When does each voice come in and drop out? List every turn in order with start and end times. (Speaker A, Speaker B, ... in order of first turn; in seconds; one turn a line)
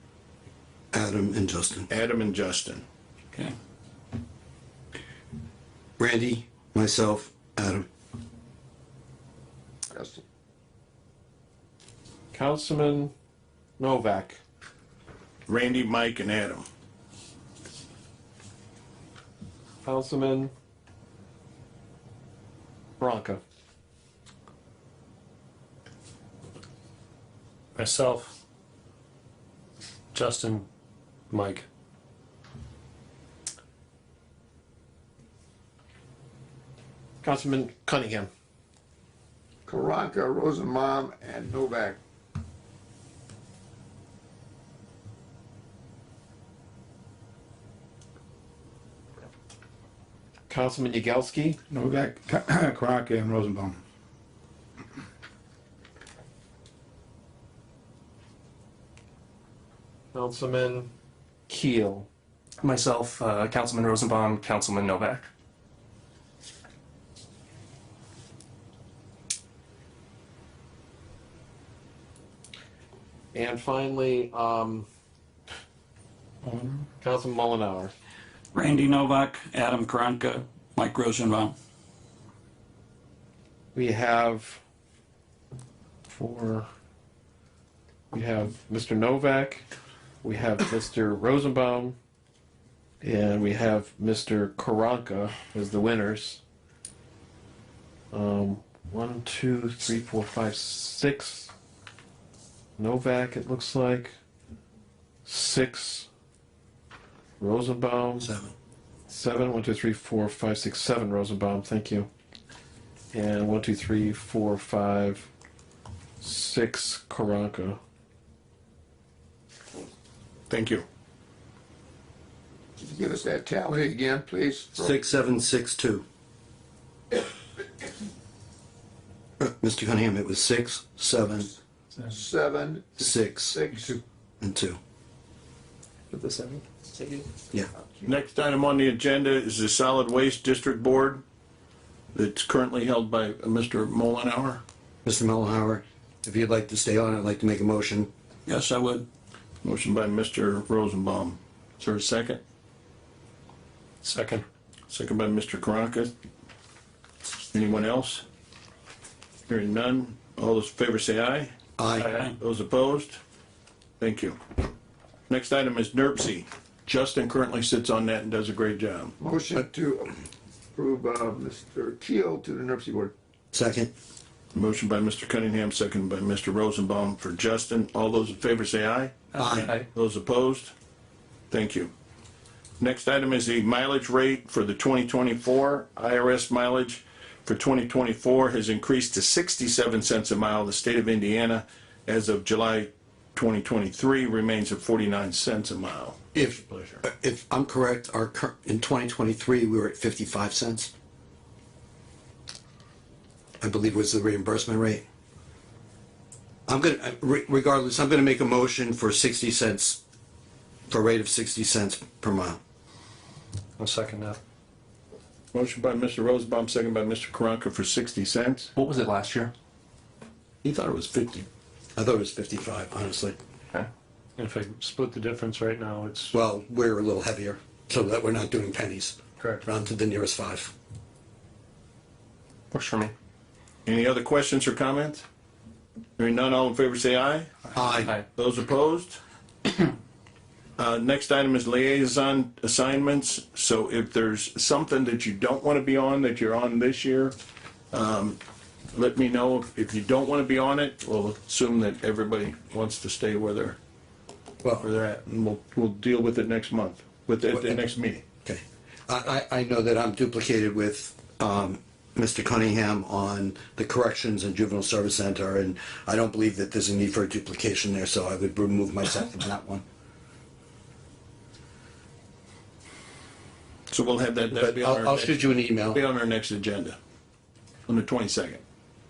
Speaker A: 0.9-1.9
Speaker B: 1.9-2.8
Speaker A: 6.0-7.9
Speaker C: 9.9-10.2
Speaker D: 12.3-13.1
Speaker D: 13.8-14.4
Speaker B: 15.5-16.7
Speaker D: 19.8-20.5
Speaker D: 23.0-23.4
Speaker E: 27.8-28.4
Speaker E: 30.1-30.7
Speaker E: 31.3-31.6
Speaker D: 37.2-38.3
Speaker C: 39.7-42.0
Speaker D: 50.5-51.6
Speaker F: 51.7-53.8
Speaker D: 60.1-60.9
Speaker D: 61.5-62.1
Speaker G: 62.6-65.3
Speaker D: 73.3-74.9
Speaker D: 77.0-77.9
Speaker H: 78.5-81.5
Speaker D: 83.8-84.6
Speaker D: 86.1-86.7
Speaker D: 88.1-89.7
Speaker D: 90.2-92.0
Speaker D: 93.0-96.4
Speaker D: 98.1-101.5
Speaker D: 102.8-104.1
Speaker D: 105.2-106.1
Speaker D: 107.4-108.3
Speaker A: 108.2-108.5
Speaker D: 109.1-112.1
Speaker D: 113.1-115.3
Speaker D: 116.2-117.8
Speaker B: 120.5-120.8
Speaker C: 122.8-125.0
Speaker A: 124.8-126.0
Speaker A: 129.4-131.5
Speaker C: 132.0-134.0
Speaker A: 133.0-133.6
Speaker A: 134.4-134.8
Speaker B: 138.1-141.2
Speaker B: 142.1-144.6
Speaker A: 145.1-148.1
Speaker H: 148.5-149.1
Speaker B: 149.6-152.4
Speaker E: 154.0-154.4
Speaker B: 154.9-156.1
Speaker B: 157.5-158.2
Speaker B: 159.5-161.5
Speaker A: 161.8-162.1
Speaker B: 162.2-163.2
Speaker B: 164.0-164.4
Speaker B: 165.3-169.1
Speaker C: 169.2-170.1
Speaker C: 170.8-173.1
Speaker A: 173.5-173.9
Speaker B: 174.5-180.7
Speaker A: 179.4-179.7
Speaker B: 181.5-181.9
Speaker B: 182.8-197.0
Speaker A: 196.3-200.9
Speaker A: 203.6-205.0
Speaker A: 206.7-210.0
Speaker A: 210.9-212.6
Speaker E: 213.8-214.4
Speaker B: 215.5-218.7
Speaker G: 218.8-219.5
Speaker B: 220.6-221.5
Speaker A: 222.0-223.4
Speaker E: 224.4-226.3
Speaker A: 226.3-230.7
Speaker G: 232.7-233.1
Speaker B: 233.9-235.2
Speaker B: 236.2-237.7
Speaker A: 237.8-238.1
Speaker B: 238.3-239.2
Speaker B: 240.8-247.3
Speaker B: 247.9-248.4
Speaker B: 248.9-253.8
Speaker A: 254.6-254.9
Speaker B: 254.8-258.2
Speaker A: 257.5-257.8
Speaker A: 258.4-269.9
Speaker B: 273.9-277.0
Speaker A: 274.5-276.0
Speaker B: 277.9-278.6